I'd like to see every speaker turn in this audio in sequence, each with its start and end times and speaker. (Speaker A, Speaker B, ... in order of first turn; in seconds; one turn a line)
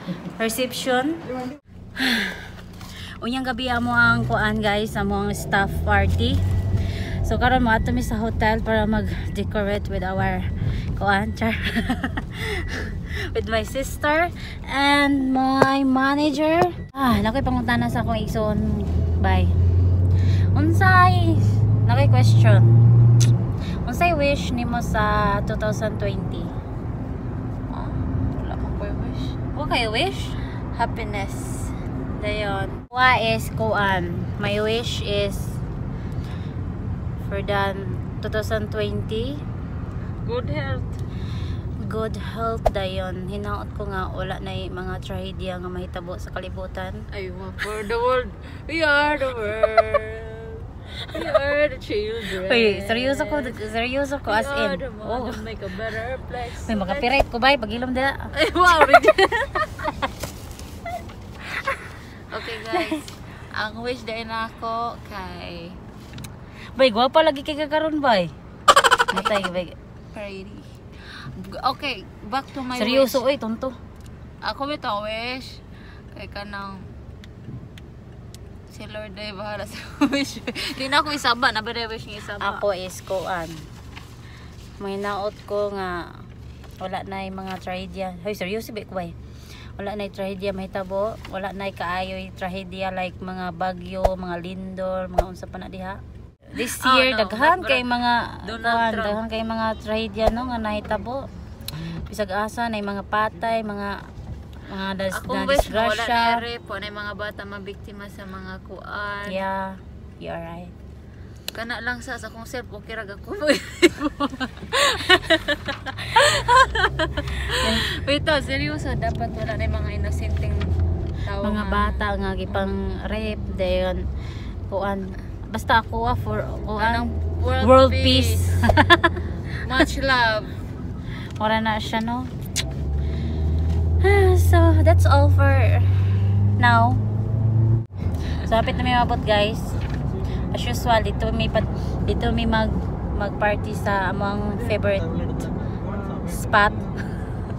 Speaker A: 0.4-1.2
Speaker A: 2.0-2.5
Speaker A: 3.2-6.4
Speaker A: 7.2-10.4
Speaker A: 10.9-19.5
Speaker A: 20.5-22.7
Speaker A: 23.8-26.5
Speaker B: 27.7-29.4
Speaker A: 29.5-30.3
Speaker B: 30.7-31.8
Speaker A: 32.2-35.6
Speaker A: 37.2-39.4
Speaker B: 40.2-41.0
Speaker A: 41.8-47.0
Speaker B: 47.1-53.6
Speaker A: 52.4-55.4
Speaker B: 54.2-57.1
Speaker A: 56.7-58.2
Speaker B: 58.3-59.7
Speaker B: 62.3-63.0
Speaker B: 63.5-65.8
Speaker A: 66.8-68.3
Speaker A: 69.1-69.7
Speaker B: 69.1-69.6
Speaker B: 70.1-70.6
Speaker B: 71.2-73.2
Speaker A: 72.8-73.8
Speaker B: 74.4-75.6
Speaker B: 76.1-76.8
Speaker B: 78.7-82.6
Speaker A: 82.4-83.6
Speaker A: 84.8-86.2
Speaker A: 86.8-89.1
Speaker A: 89.8-96.0
Speaker A: 96.5-101.2
Speaker B: 96.5-97.8
Speaker B: 98.4-99.2
Speaker A: 101.8-104.0
Speaker A: 104.7-106.4
Speaker B: 105.1-109.4
Speaker A: 109.3-110.7
Speaker B: 111.5-120.7
Speaker A: 117.5-117.8
Speaker B: 121.2-122.7
Speaker A: 121.4-124.0
Speaker A: 124.7-127.0
Speaker B: 126.8-128.5
Speaker A: 127.6-129.2
Speaker B: 129.6-130.5
Speaker A: 131.4-132.3
Speaker A: 134.0-136.0
Speaker A: 136.6-137.0
Speaker A: 138.4-139.7
Speaker A: 140.5-145.2
Speaker A: 146.2-146.9